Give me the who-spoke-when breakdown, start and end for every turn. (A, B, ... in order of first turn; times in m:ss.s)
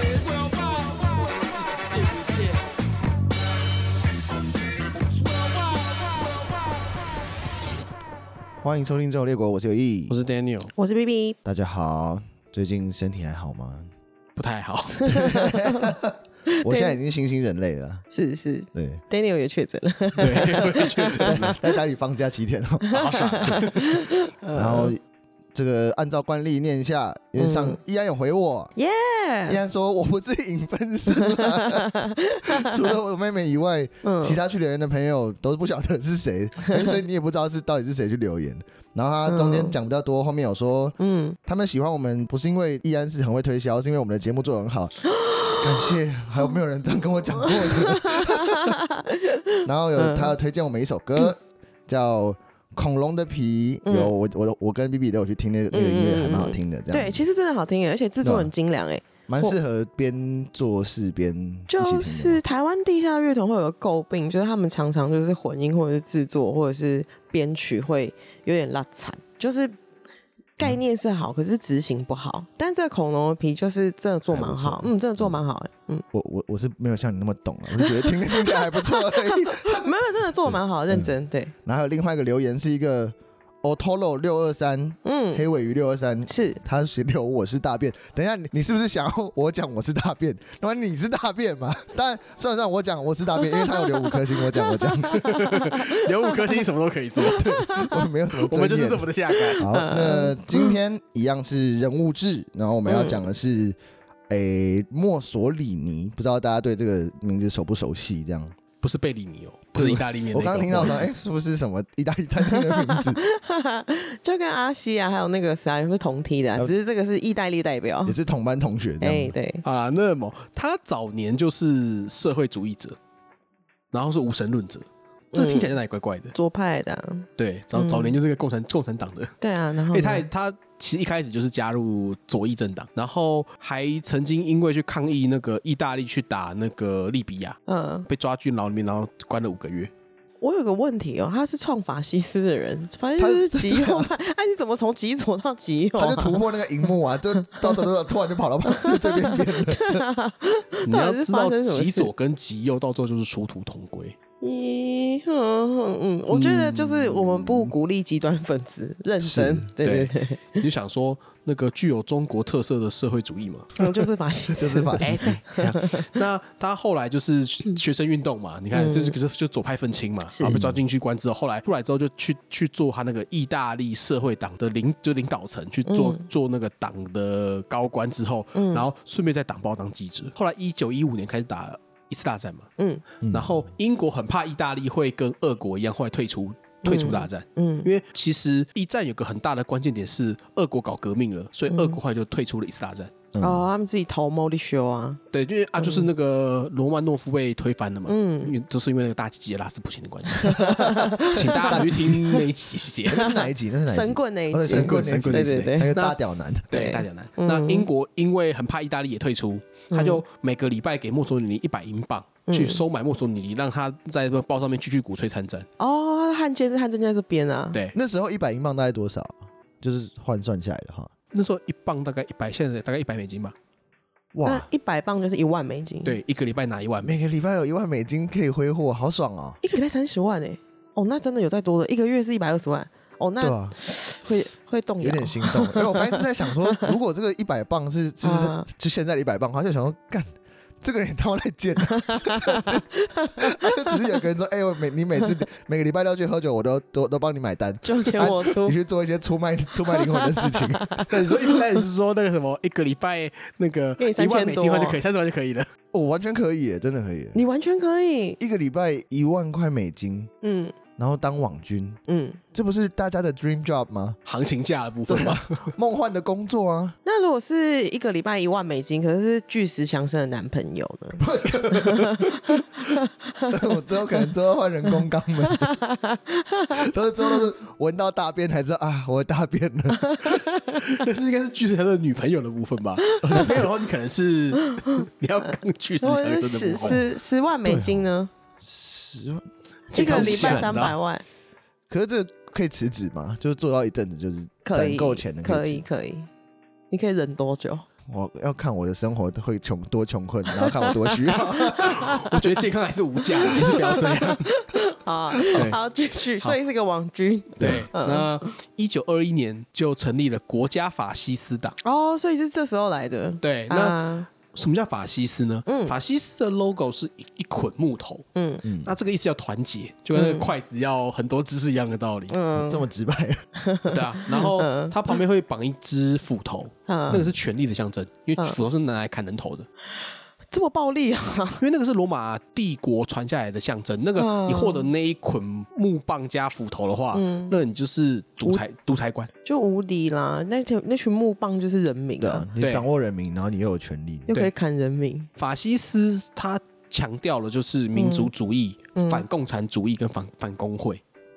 0:08.6-0:10.2 A
0:10.1-0:10.7 B
0:10.8-0:11.4 C
0:11.4-0:13.9 A
0:14.4-0:15.2 B
0:15.0-0:16.0 C
0:15.0-0:18.0 A
0:16.5-0:17.0 C
0:18.1-0:21.6 C
0:18.7-0:19.0 A
0:20.2-0:21.6 B
0:21.2-0:23.7 A
0:22.9-0:24.9 C
0:22.9-0:23.8 B
0:24.5-0:25.0 A
0:25.5-0:28.7 A
0:27.4-0:27.8 C
0:28.8-0:29.6 C
0:29.5-0:31.9 A
0:31.1-0:32.8 C
0:32.4-0:45.0 A
0:34.0-0:34.4 C
0:36.7-0:36.9 C
0:39.3-0:39.8 C
0:41.0-0:41.4 C
0:45.1-0:46.0 C
0:45.6-0:48.8 A
0:47.4-0:50.4 C
0:49.6-0:57.2 A
0:53.9-0:54.1 C
0:55.7-0:59.6 C
0:58.2-0:58.5 A
0:59.3-1:02.4 A
1:01.7-1:09.8 C
1:10.6-1:16.0 C
1:14.3-1:15.4 A
1:16.1-1:35.2 A
1:17.7-1:21.5 C
1:25.0-1:25.4 C
1:26.3-1:26.6 C
1:33.6-1:36.6 C
1:35.2-1:37.4 B
1:37.2-1:38.0 C
1:37.4-1:43.8 A
1:38.3-1:39.7 B
1:39.3-1:40.8 C
1:42.9-1:43.2 C
1:44.3-1:48.6 A
1:48.8-1:51.1 B
1:49.8-1:53.2 A
1:52.4-1:58.2 C
1:58.0-1:59.4 A
1:59.0-1:59.6 C
1:59.6-2:03.0 B
2:03.9-2:06.4 B
2:05.3-2:05.8 C
2:06.3-2:08.2 C
2:07.4-2:09.4 B
2:09.4-2:10.3 C
2:09.9-2:19.9 B
2:17.7-2:18.1 C
2:20.4-2:26.5 C
2:23.2-2:24.1 A
2:26.0-2:30.0 A
2:27.6-2:27.9 C
2:28.7-2:32.1 C
2:30.8-2:34.2 B
2:34.4-2:40.6 C
2:36.3-2:37.6 B
2:39.2-2:39.7 A
2:39.8-2:43.7 B
2:43.8-2:46.1 C
2:44.5-2:45.4 A
2:45.0-3:02.7 B
2:48.7-2:49.2 C
2:50.3-2:50.6 C
2:50.4-2:50.8 A
2:55.9-2:56.2 C
2:58.6-2:58.9 C
3:02.8-3:03.0 C
3:03.2-3:03.5 A
3:03.3-3:13.1 B
3:06.8-3:07.9 C
3:11.7-3:12.0 C
3:13.3-3:13.7 A
3:13.4-3:15.2 C
3:15.3-3:23.2 B
3:15.8-3:16.1 C
3:18.1-3:18.6 C
3:20.4-3:22.4 C
3:20.4-3:22.3 A
3:23.1-3:26.7 A
3:23.1-3:26.0 C
3:24.7-3:26.2 B
3:26.7-3:35.7 B
3:26.7-3:27.9 C
3:29.9-3:30.2 C
3:32.5-3:32.8 C
3:35.8-3:37.8 C
3:37.9-3:41.1 A
3:41.3-3:43.6 B
3:44.3-3:44.7 A
3:44.4-3:46.2 C
3:46.0-3:47.2 B
3:47.0-3:49.6 A
3:49.6-3:56.9 C
3:53.4-3:53.8 A
3:55.0-4:00.3 A
3:58.2-3:58.7 C
4:00.8-4:11.0 A
4:01.9-4:04.0 C
4:07.8-4:08.8 C
4:09.9-4:11.6 C
4:11.1-4:15.7 B
4:14.0-4:15.0 C
4:15.9-4:17.4 A
4:17.4-4:18.4 C
4:18.4-4:20.3 A
4:20.4-4:20.8 C
4:21.0-4:22.0 A
4:22.1-4:22.4 C
4:22.5-4:24.2 A
4:24.3-4:25.6 B
4:25.1-4:27.0 A
4:27.0-4:34.3 C
4:31.2-4:32.2 A
4:33.5-4:35.7 A
4:35.5-4:37.4 C
4:36.8-4:40.3 A
4:40.0-4:41.0 C
4:40.8-4:47.0 B
4:43.0-4:43.6 C
4:43.2-4:43.6 A
4:44.6-4:48.3 C
4:47.6-4:48.0 A
4:48.6-4:50.9 A
4:49.9-4:51.0 B
4:49.9-4:51.2 C
4:51.9-4:55.9 A
4:54.6-4:56.3 C
4:56.9-4:57.9 C
4:58.1-5:02.2 A
5:00.6-5:02.5 C
5:01.8-5:04.5 B
5:03.3-5:08.5 C
5:05.5-5:05.8 B
5:07.6-5:07.9 A
5:07.6-5:11.8 B
5:11.8-5:14.3 C
5:13.4-5:18.2 B
5:15.7-5:16.0 C
5:18.4-5:18.6 C
5:18.6-5:18.9 A
5:18.8-5:22.3 B
5:20.1-5:20.5 C
5:22.3-5:22.8 C
5:22.6-5:23.4 A
5:23.6-5:25.0 C
5:23.9-5:29.7 B
5:26.9-5:27.2 C
5:30.5-5:31.6 C
5:31.6-5:39.3 B
5:34.2-5:34.9 C
5:37.1-5:37.6 C
5:39.4-5:42.5 C
5:42.2-5:44.3 A
5:42.6-5:42.9 B
5:44.3-5:45.3 C
5:45.4-5:51.0 B
5:48.0-5:48.3 C
5:49.0-5:49.2 C